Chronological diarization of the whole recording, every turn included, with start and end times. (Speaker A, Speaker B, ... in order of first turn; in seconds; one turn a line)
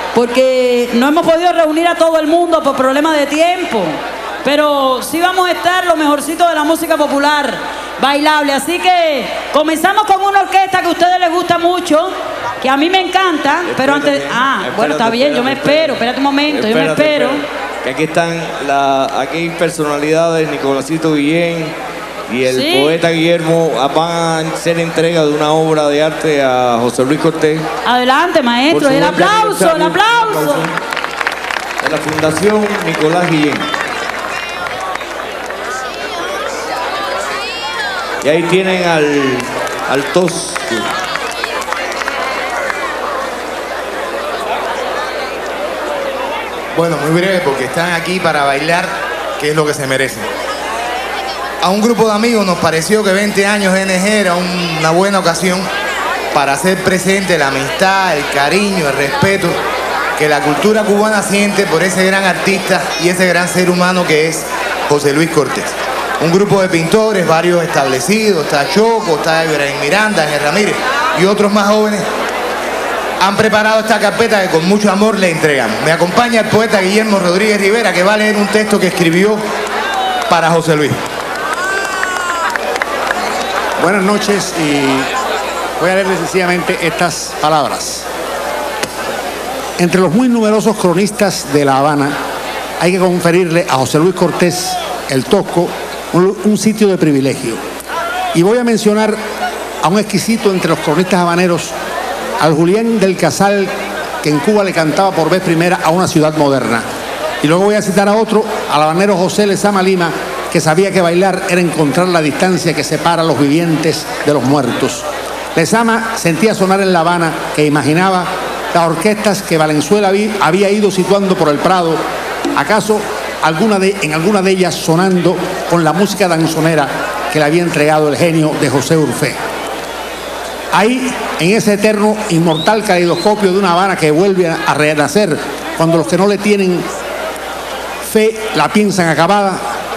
Speaker A: 0.1-17.4
Speaker B: 13.6-21.8
Speaker B: 22.3-27.7
Speaker A: 22.4-23.0
Speaker A: 27.8-30.7
Speaker B: 28.7-30.8
Speaker B: 31.8-33.7
Speaker B: 38.2-40.9
Speaker C: 46.7-50.3
Speaker C: 51.6-55.7
Speaker C: 56.3-59.6
Speaker C: 60.2-72.1
Speaker C: 73.2-79.4
Speaker C: 80.3-81.0
Speaker D: 83.8-85.1
Speaker D: 85.8-88.1
Speaker D: 89.8-92.1
Speaker D: 92.8-97.6
Speaker D: 98.3-99.2
Speaker D: 99.8-101.7
Speaker D: 102.4-106.9
Speaker D: 107.4-115.0
Speaker D: 115.5-122.0
Speaker D: 122.5-129.4
Speaker D: 130.7-136.9
Speaker D: 138.0-139.6